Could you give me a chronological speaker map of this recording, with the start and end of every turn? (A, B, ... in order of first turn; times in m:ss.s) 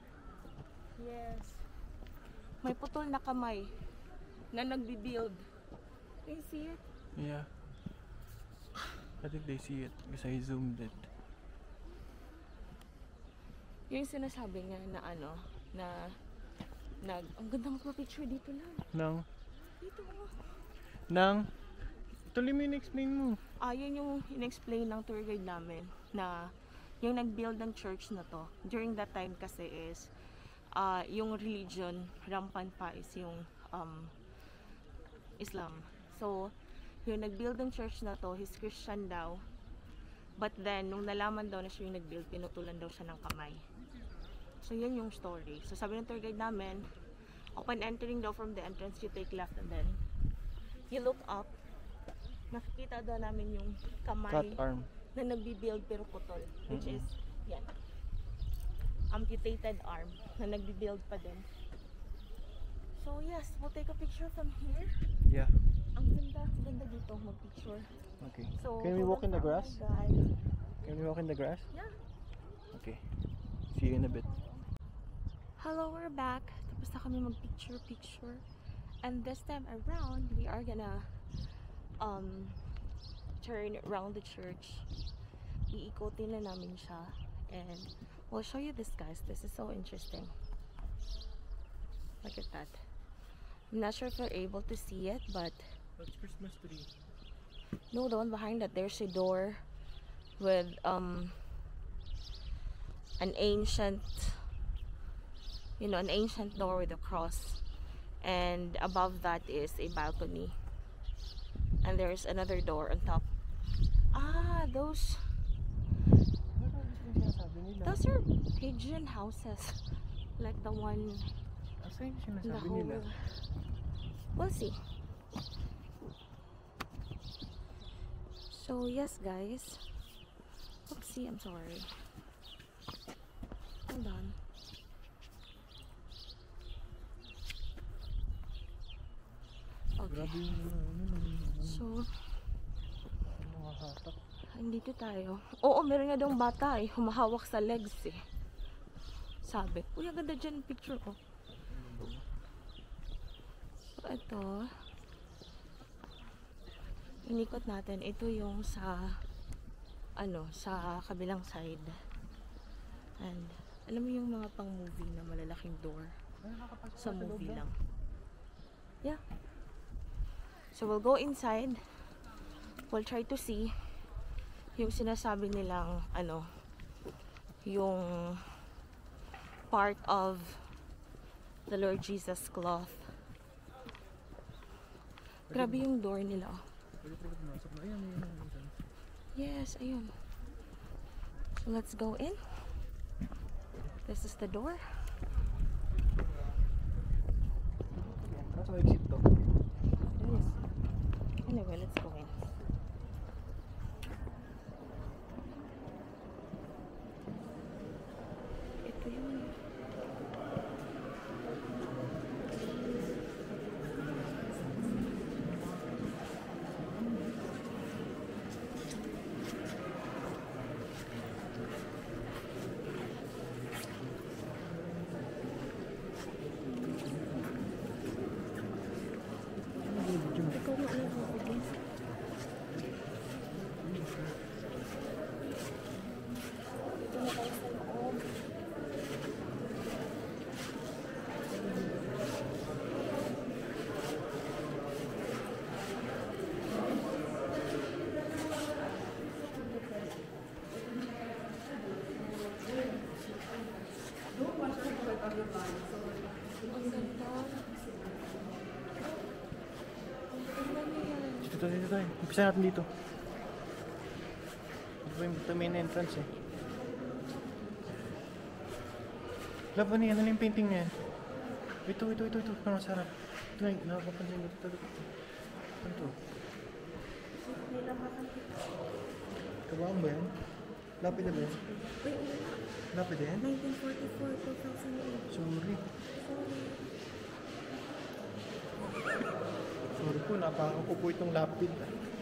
0:01.0-0:01.7 A
0:02.6-0:03.7 A
0:04.5-0:05.4 A
0:06.2-0:06.8 A
0:07.2-0:07.5 B
0:09.2-0:11.1 B
0:13.9-0:16.2 A
0:17.0-0:18.9 A
0:18.9-0:19.2 B
0:19.8-0:20.6 A
0:21.1-0:21.5 B
0:22.3-0:23.4 B
0:23.6-0:30.1 A
0:30.7-0:34.1 A
0:35.4-0:39.4 A
0:40.4-0:43.6 A
0:44.6-0:46.9 A
0:47.5-0:50.0 A
0:50.9-0:51.5 A
0:52.5-0:57.7 A
0:54.3-0:54.9 B
0:56.7-0:57.0 B
0:59.1-1:01.4 A
1:02.9-1:05.1 A
1:05.2-1:05.6 B
1:05.9-1:08.0 A
1:08.2-1:09.8 B
1:08.5-1:10.3 A
1:10.8-1:11.7 B
1:12.7-1:13.0 B
1:13.7-1:14.3 B
1:14.1-1:14.6 A
1:15.6-1:18.4 A
1:19.0-1:21.2 A
1:22.0-1:22.6 A
1:23.4-1:24.9 A
1:25.7-1:30.3 A
1:32.2-1:32.8 A
1:33.7-1:35.6 A
1:36.0-1:36.9 B
1:37.9-1:39.6 A
1:40.4-1:41.4 A
1:43.2-1:44.4 A
1:45.8-1:47.6 A
1:48.2-1:50.5 A
1:51.8-1:53.2 A
1:54.1-1:55.2 A
1:56.5-1:58.0 B
1:57.8-1:59.8 A
2:00.4-2:01.3 A
2:01.8-2:03.0 B
2:02.4-2:03.5 A
2:04.3-2:04.8 A
2:08.5-2:09.8 A
2:10.9-2:11.9 A
2:13.9-2:14.4 A
2:20.0-2:20.4 A
2:20.0-2:21.8 B
2:21.6-2:22.3 A
2:23.2-2:24.2 B
2:24.5-2:28.2 A
2:29.4-2:31.2 A
2:31.7-2:32.2 B
2:34.0-2:34.6 A
2:37.2-2:39.2 A
2:40.2-2:42.0 A
2:43.2-2:46.1 A
2:46.4-2:47.6 B
2:47.0-2:47.7 A
2:50.7-2:51.8 A
2:52.8-2:53.7 A
2:54.7-2:56.5 A
2:57.6-2:58.6 A
2:59.7-3:00.7 A
3:01.7-3:03.1 A
3:05.5-3:05.8 B
3:05.5-3:06.6 A
3:07.0-3:08.8 B
3:09.3-3:10.1 A
3:11.6-3:12.6 A
3:14.0-3:14.8 A
3:17.9-3:19.4 B
3:21.4-3:22.3 A
3:28.8-3:29.5 A
3:46.6-3:47.4 A
3:49.9-3:50.6 B
3:50.4-3:51.8 A
3:57.0-3:58.4 A
4:16.7-4:17.8 A
4:19.0-4:19.3 A
4:20.4-4:21.5 A
4:21.4-4:22.9 B
4:25.0-4:26.3 B
4:29.7-4:31.0 B
4:31.8-4:35.1 B
4:35.8-4:36.1 B
4:37.4-4:38.7 A
4:39.7-4:40.4 B
4:41.0-4:41.6 B
4:41.1-4:42.6 A
4:42.9-4:43.4 B
4:43.4-4:45.4 A
4:45.3-4:45.8 B
4:46.1-4:46.8 A
4:49.9-4:51.9 B